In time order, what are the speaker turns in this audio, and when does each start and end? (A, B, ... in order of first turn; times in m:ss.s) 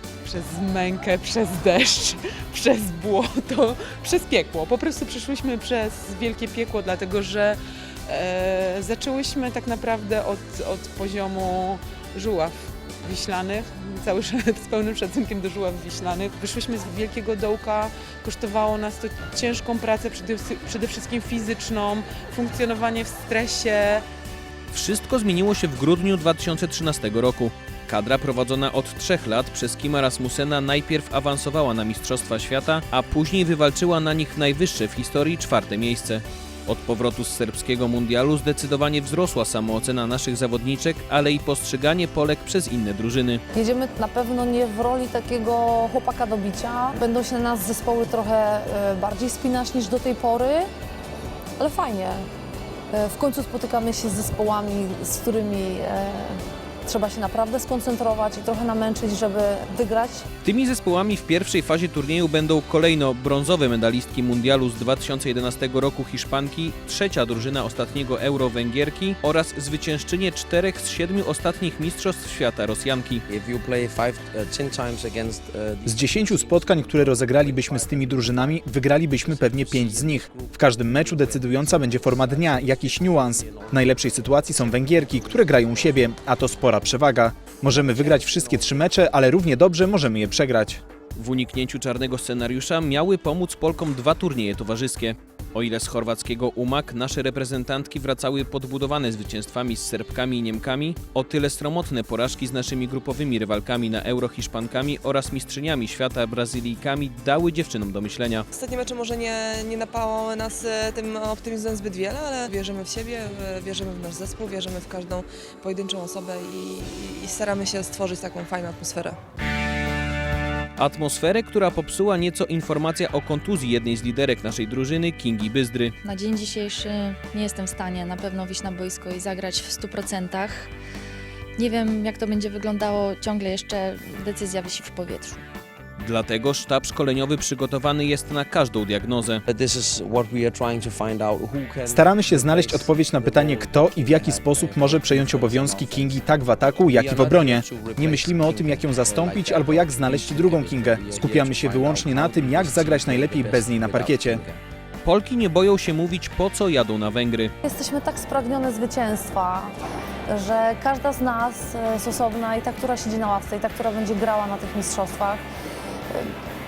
0:00.2-0:24.0 A
0:24.7-0:43.4 B
0:43.5-0:50.7 C
0:51.6-0:52.2 C
0:52.9-1:00.2 C
1:00.4-1:13.2 B
1:13.3-1:26.6 D
1:15.9-1:30.8 E
1:27.6-1:29.2 D
1:31.2-1:48.4 B
1:48.5-1:59.2 F
2:00.8-2:06.0 B
2:06.0-2:10.7 G
2:11.6-2:15.4 G
2:16.0-2:19.4 B
2:19.5-2:34.6 D
2:21.9-2:34.4 E
2:35.0-2:37.5 B
2:37.6-2:39.7 C
2:40.3-2:45.4 C